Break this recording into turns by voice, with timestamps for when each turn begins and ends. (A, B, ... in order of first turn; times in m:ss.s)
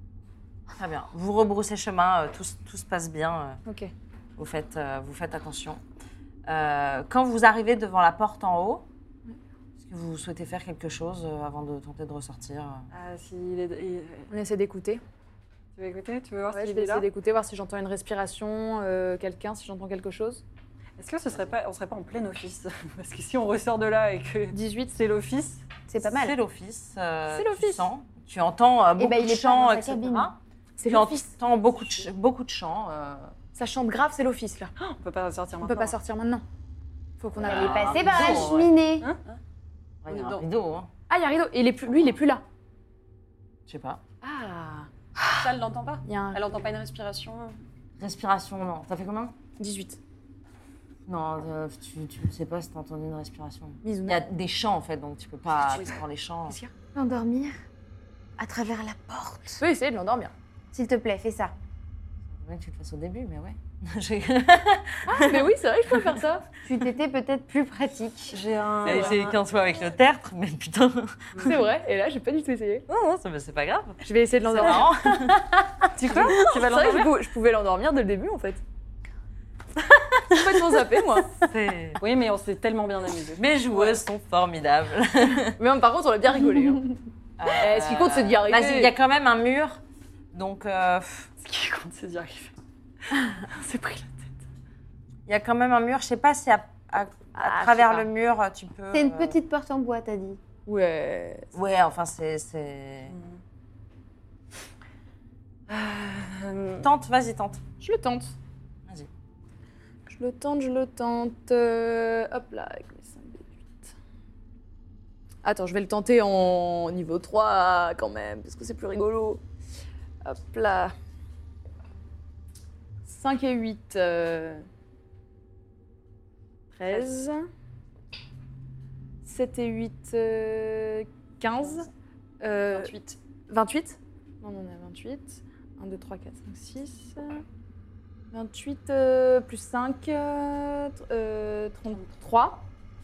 0:00.8-0:03.6 A
0:03.7-0:03.9 B
0:04.4-0:05.8 A
0:06.5-0:08.9 A
0:09.8-0:12.9 A
0:12.9-0:14.3 C
0:14.3-0:15.0 B
0:15.8-0:17.1 C
0:16.5-0:20.4 B
0:21.0-0:25.6 C
0:24.5-0:24.9 B
0:25.9-0:26.4 D
0:26.0-0:30.4 A
0:27.3-0:27.9 B
0:29.0-0:30.3 D
0:30.8-0:31.3 B
0:30.9-0:33.4 A
0:33.6-0:34.7 B
0:34.8-0:36.0 C
0:35.6-0:36.4 B
0:37.2-0:37.8 B
0:37.4-0:38.7 A
0:37.5-0:39.1 D
0:37.7-0:38.5 C
0:40.0-0:40.9 A
0:40.1-0:40.4 E
0:41.1-0:42.4 B
0:43.7-0:44.0 A
0:44.2-0:45.5 B
0:45.3-0:47.6 E
0:46.0-0:46.4 B
0:48.0-0:49.4 A
0:49.6-0:50.0 B
0:51.1-0:56.6 A
0:53.8-0:54.2 B
0:55.7-0:56.0 E
0:57.0-0:57.6 D
0:58.4-0:59.6 D
0:59.6-1:00.3 B
1:00.7-1:01.5 D
1:02.3-1:06.2 A
1:05.1-1:06.5 B
1:06.6-1:08.4 D
1:08.3-1:09.4 C
1:08.8-1:11.6 A
1:11.3-1:11.6 C
1:11.4-1:12.8 B
1:12.9-1:16.4 A
1:14.0-1:14.9 B
1:16.0-1:17.1 C
1:16.0-1:18.6 B
1:20.3-1:21.3 B
1:21.3-1:22.0 A
1:22.0-1:24.0 C
1:23.4-1:25.6 A
1:25.6-1:27.0 B
1:27.4-1:31.3 A
1:27.6-1:28.9 B
1:31.4-1:32.5 C
1:33.1-1:34.3 C
1:35.3-1:39.4 A
1:37.3-1:38.1 B
1:38.9-1:40.4 D
1:40.7-1:41.5 B
1:41.5-1:43.2 A
1:43.1-1:43.4 C
1:45.7-1:46.9 C
1:46.8-1:47.6 A
1:47.8-1:48.4 B
1:50.1-1:53.9 B
1:55.4-1:59.4 B
2:00.2-2:00.9 B
2:03.0-2:04.7 B
2:06.7-2:07.5 B
2:09.2-2:11.9 B
2:12.4-2:12.9 B
2:12.7-2:13.2 E
2:13.5-2:17.4 B
2:18.3-2:22.6 B